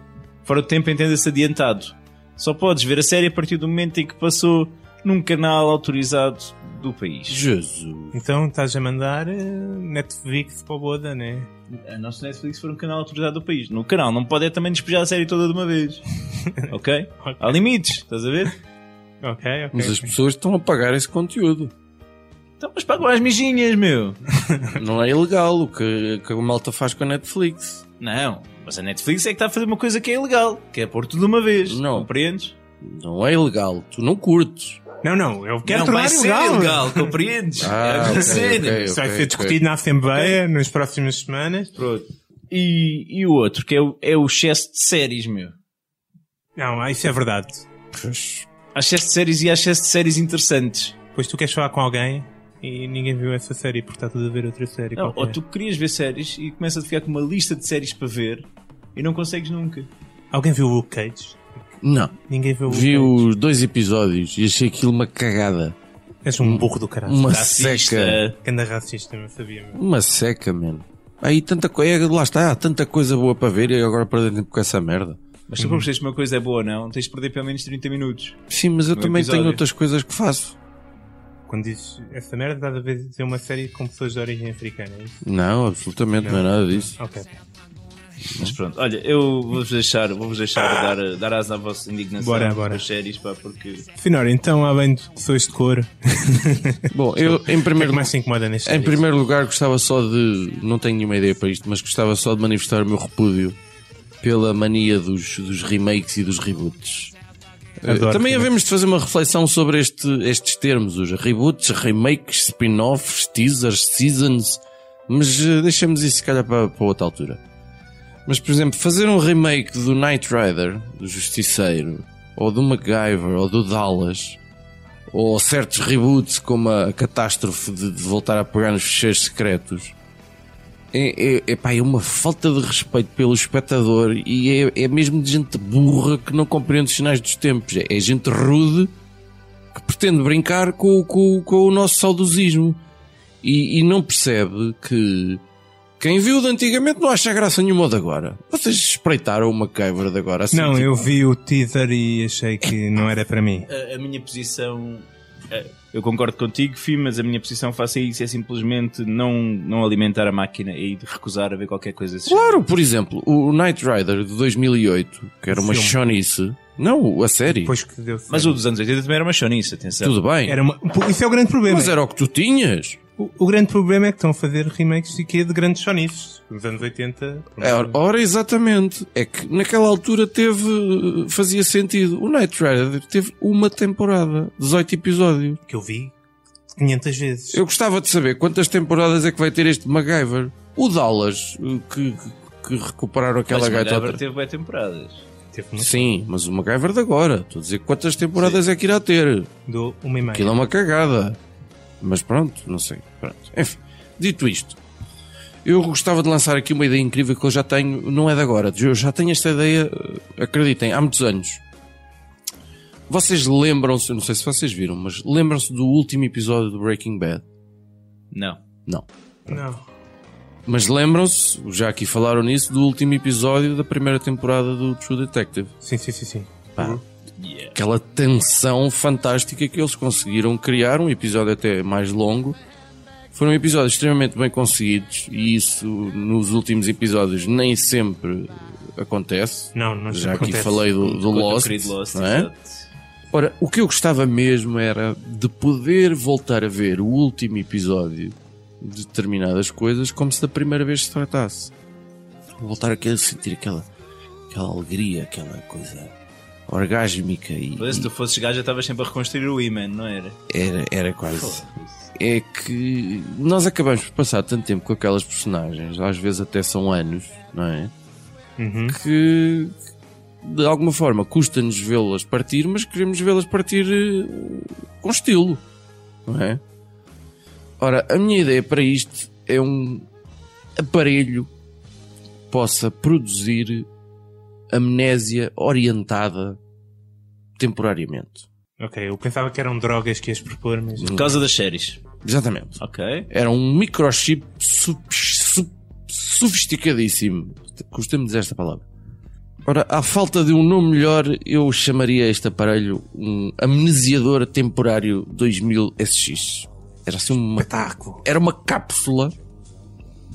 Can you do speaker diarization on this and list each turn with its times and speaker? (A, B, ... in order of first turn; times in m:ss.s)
0:00.4-0:07.4 A
0:07.3-0:08.2 B
0:08.1-0:11.5 C
0:11.7-0:18.6 A
0:17.2-0:17.6 C
0:19.2-0:20.1 C
0:19.7-0:21.7 B
0:22.6-0:24.2 A
0:24.5-0:24.8 C
0:24.8-0:27.8 B
0:28.0-0:32.6 A
0:31.7-0:32.1 B
0:32.8-0:34.8 B
0:35.0-0:37.1 C
0:35.7-0:38.9 A
0:37.6-0:39.6 B
0:38.1-0:41.7 C
0:41.8-0:45.6 A
0:46.6-0:47.7 C
0:47.9-0:48.5 B
0:48.7-0:51.0 A
0:51.2-0:55.4 C
0:55.0-0:59.9 A
1:00.3-1:01.4 C
1:01.8-1:02.2 B
1:02.3-1:03.3 C
1:02.7-1:05.8 B
1:06.2-1:07.4 C
1:06.4-1:08.2 B
1:07.3-1:08.4 A
1:08.4-1:09.8 C
1:09.7-1:15.2 B
1:15.5-1:18.4 A
1:15.6-1:15.9 C
1:18.5-1:20.6 B
1:18.9-1:19.6 A
1:21.5-1:25.2 C
1:25.2-1:27.0 B
1:26.2-1:27.3 C
1:28.3-1:28.6 B
1:28.4-1:33.9 A
1:32.2-1:32.8 C
1:34.0-1:39.0 C
1:36.9-1:38.1 B
1:38.6-1:43.6 B
1:44.2-1:47.2 B
1:47.8-1:57.4 B
1:47.9-1:48.5 C
1:58.3-2:04.4 B
2:05.1-2:10.0 B
2:10.9-2:18.9 B
2:19.7-2:22.8 B
2:23.4-2:25.4 B
2:26.0-2:31.1 B
2:30.5-2:33.7 C
2:33.7-2:42.7 A
2:42.3-2:47.7 B
2:45.5-2:46.0 C
2:47.5-2:48.6 C
2:48.3-2:50.2 A
2:50.0-2:50.6 B
2:50.5-2:52.0 C
2:51.7-2:53.0 B
2:53.2-2:58.0 C
2:57.6-3:05.6 B
3:05.7-3:06.2 C
3:06.8-3:07.6 C
3:07.5-3:14.2 B
3:13.5-3:15.3 A
3:15.5-3:16.2 C
3:15.8-3:19.5 B
3:19.7-3:20.6 C
3:20.3-3:21.4 B
3:22.0-3:24.8 B
3:25.6-3:31.6 B
3:33.1-3:37.4 B
3:38.3-3:38.6 A
3:38.9-3:39.6 B
3:39.5-3:39.8 C
3:40.6-3:45.7 B
3:45.8-3:47.0 C
3:46.8-3:47.0 B
3:47.4-3:47.8 A
3:47.7-3:52.6 B
3:53.3-4:02.5 B
3:59.8-4:00.9 C
4:00.4-4:02.8 A
4:03.3-4:11.7 B
4:12.6-4:13.9 B
4:14.5-4:16.2 B
4:16.7-4:18.1 B
4:17.8-4:20.4 A
4:20.5-4:27.9 B
4:21.3-4:22.1 A
4:28.6-4:29.0 C
4:28.9-4:29.8 B
4:30.4-4:35.6 B
4:36.3-4:36.6 B
4:37.8-4:40.1 B
4:40.8-4:41.5 B
4:42.5-4:43.9 B
4:44.7-4:46.6 B
4:47.6-4:48.5 B
4:48.8-4:51.3 C
4:51.0-4:51.3 B
4:51.1-4:52.0 A
4:52.2-4:52.8 B
4:52.8-4:53.3 A
4:53.3-4:58.8 B
4:59.6-5:09.3 B
5:07.6-5:08.2 C